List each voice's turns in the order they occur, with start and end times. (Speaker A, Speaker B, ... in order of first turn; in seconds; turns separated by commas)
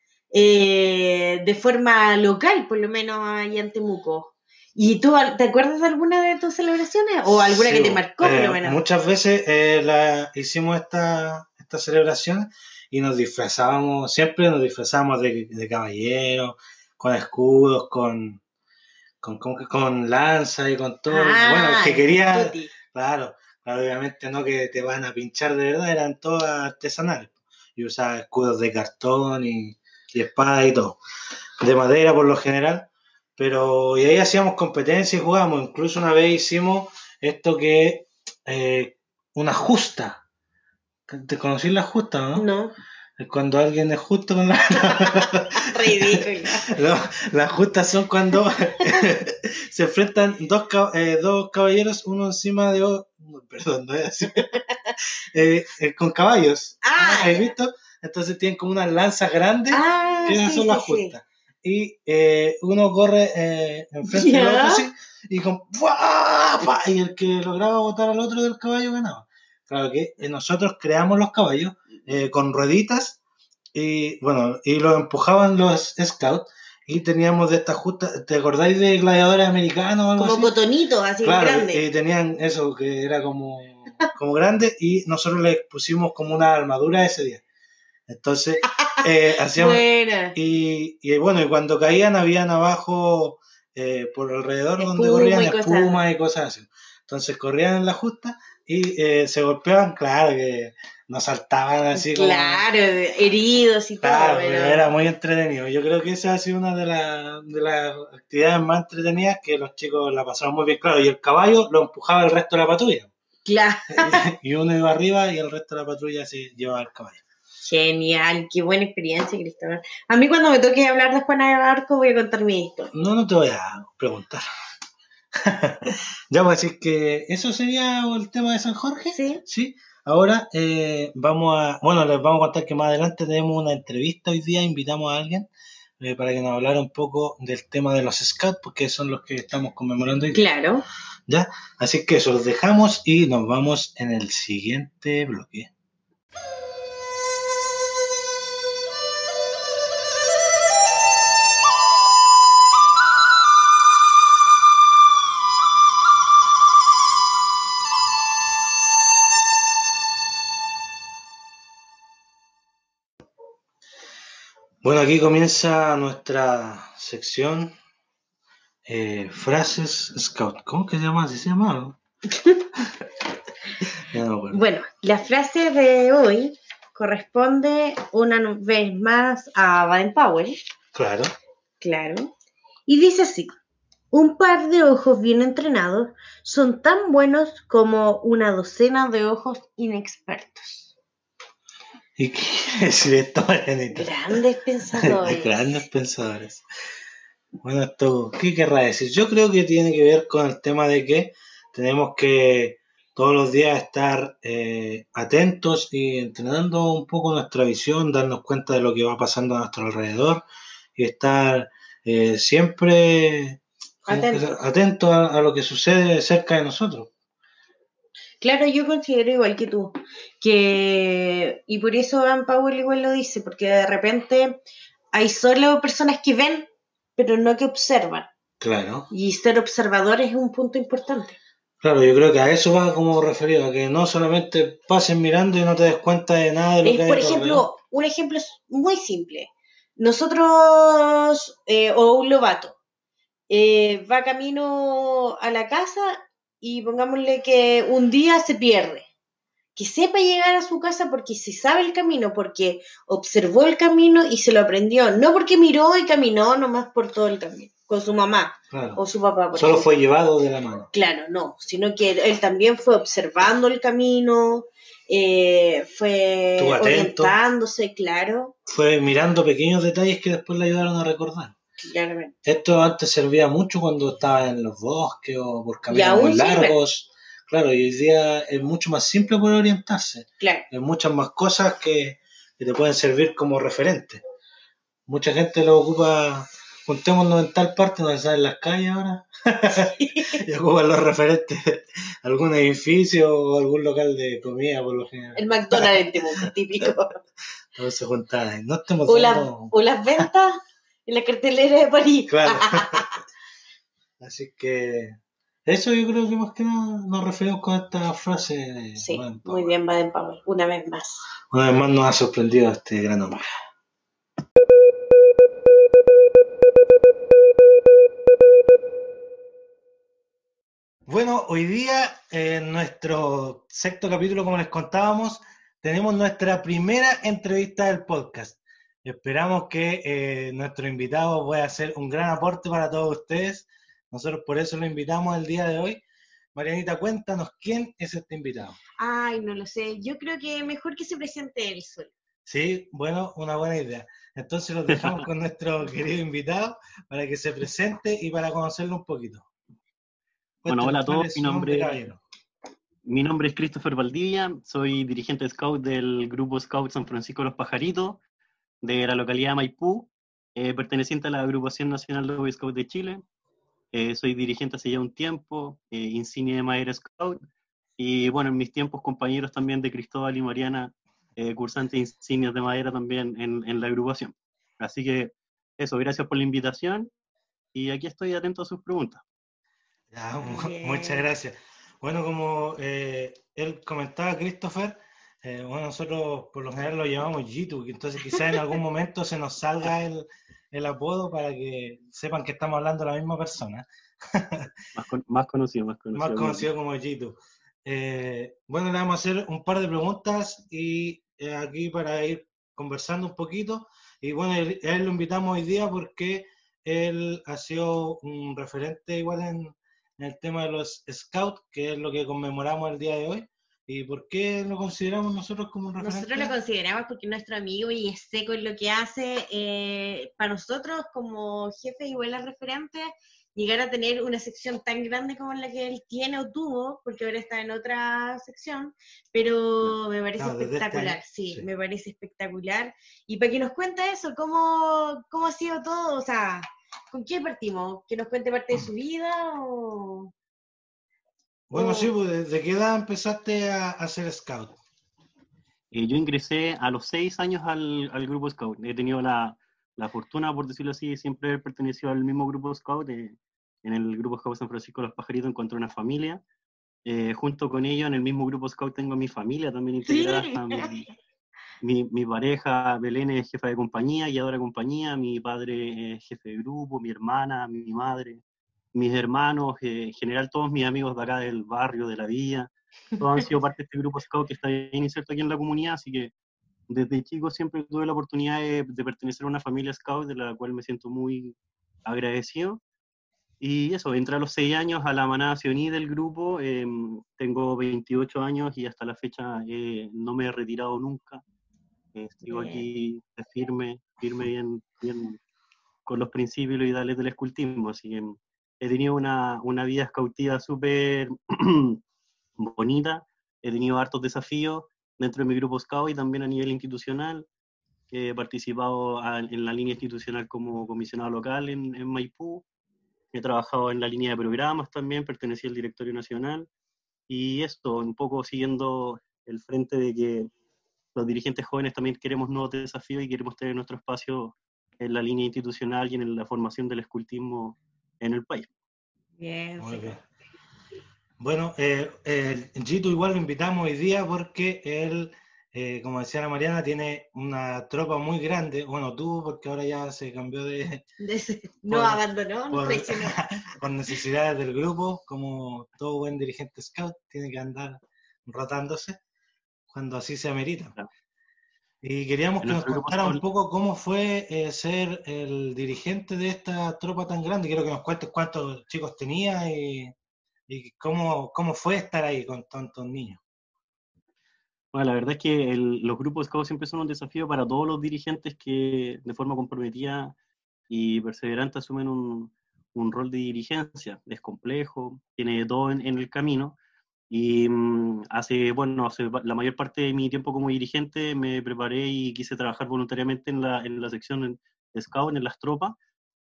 Speaker A: 0.3-8.8, Speaker B: 7.2-18.4, Speaker B: 19.2-31.0, Speaker A: 21.1-22.7, Speaker B: 31.6-40.2, Speaker B: 41.1-42.4, Speaker A: 42.4-42.7, Speaker B: 43.2-54.6, Speaker A: 44.9-46.7, Speaker B: 55.3-73.2, Speaker A: 56.8-57.5, Speaker A: 59.7-61.1, Speaker A: 64.0-64.8, Speaker B: 73.7-80.5, Speaker A: 80.1-81.8, Speaker B: 81.2-87.4, Speaker B: 88.1-102.6, Speaker A: 89.5-90.3, Speaker A: 94.8-96.0, Speaker A: 101.9-104.9, Speaker B: 104.0-113.1, Speaker A: 113.4-114.2, Speaker B: 113.9-117.2, Speaker A: 117.6-122.9, Speaker B: 122.9-124.4, Speaker B: 125.3-135.5, Speaker A: 129.1-129.4, Speaker B: 136.0-140.4, Speaker A: 140.3-140.8, Speaker B: 141.3-145.7, Speaker B: 164.8-167.7, Speaker B: 168.8-172.0, Speaker A: 172.3-172.7, Speaker B: 174.1-174.6, Speaker A: 174.5-180.6, Speaker B: 180.9-181.3, Speaker A: 181.8-182.3, Speaker A: 182.9-183.6, Speaker A: 184.1-190.9, Speaker B: 192.2-194.1, Speaker A: 193.9-195.8, Speaker B: 195.0-196.6, Speaker B: 197.6-210.4, Speaker B: 210.9-217.1, Speaker A: 214.1-214.5, Speaker A: 218.4-224.6, Speaker A: 225.1-228.3, Speaker B: 228.6-229.1, Speaker A: 229.1-231.4, Speaker B: 231.8-237.6, Speaker A: 236.8-242.8, Speaker A: 243.5-249.1, Speaker A: 249.8-259.9, Speaker B: 258.7-259.0, Speaker B: 259.5-260.9, Speaker A: 260.9-268.5, Speaker B: 266.6-267.4, Speaker B: 268.7-271.5, Speaker A: 271.8-272.3, Speaker B: 272.4-284.2, Speaker A: 275.9-276.8, Speaker A: 280.4-280.6, Speaker B: 285.1-295.9, Speaker A: 289.7-290.4, Speaker A: 295.4-297.1, Speaker B: 297.7-300.2, Speaker A: 299.1-303.2, Speaker B: 302.3-303.1, Speaker B: 304.2-309.7, Speaker A: 309.0-311.2, Speaker B: 311.5-313.4, Speaker B: 321.1-336.0, Speaker B: 336.5-338.8, Speaker A: 339.0-342.1, Speaker B: 342.5-349.5, Speaker C: 344.9-345.3, Speaker B: 350.6-352.2, Speaker C: 350.7-352.0, Speaker C: 353.0-358.2, Speaker C: 358.8-363.2, Speaker C: 363.9-367.4, Speaker C: 368.0-377.1, Speaker C: 377.7-379.2, Speaker B: 380.1-394.8, Speaker A: 380.4-381.2, Speaker C: 394.9-396.6, Speaker B: 396.1-416.6, Speaker A: 416.0-440.3, Speaker B: 430.4-431.6, Speaker B: 441.7-444.8, Speaker A: 441.7-442.1, Speaker C: 445.9-456.4, Speaker C: 457.0-461.1, Speaker A: 460.1-461.0, Speaker C: 461.8-468.4, Speaker C: 468.9-476.3, Speaker C: 476.9-482.8, Speaker C: 483.6-491.4, Speaker C: 492.1-495.4, Speaker A: 492.5-492.8, Speaker C: 496.1-502.0, Speaker C: 502.6-507.5, Speaker C: 508.1-512.6, Speaker C: 513.3-516.7, Speaker C: 517.3-520.5, Speaker C: 521.1-528.7, Speaker A: 529.4-530.2, Speaker B: 529.8-530.2, Speaker B: 531.4-541.0, Speaker A: 541.2-543.4, Speaker B: 541.9-549.2, Speaker B: 549.9-550.9, Speaker B: 552.0-560.1, Speaker C: 552.6-553.4, Speaker B: 560.7-563.4, Speaker C: 564.9-570.4, Speaker C: 570.9-576.8, Speaker C: 577.3-586.0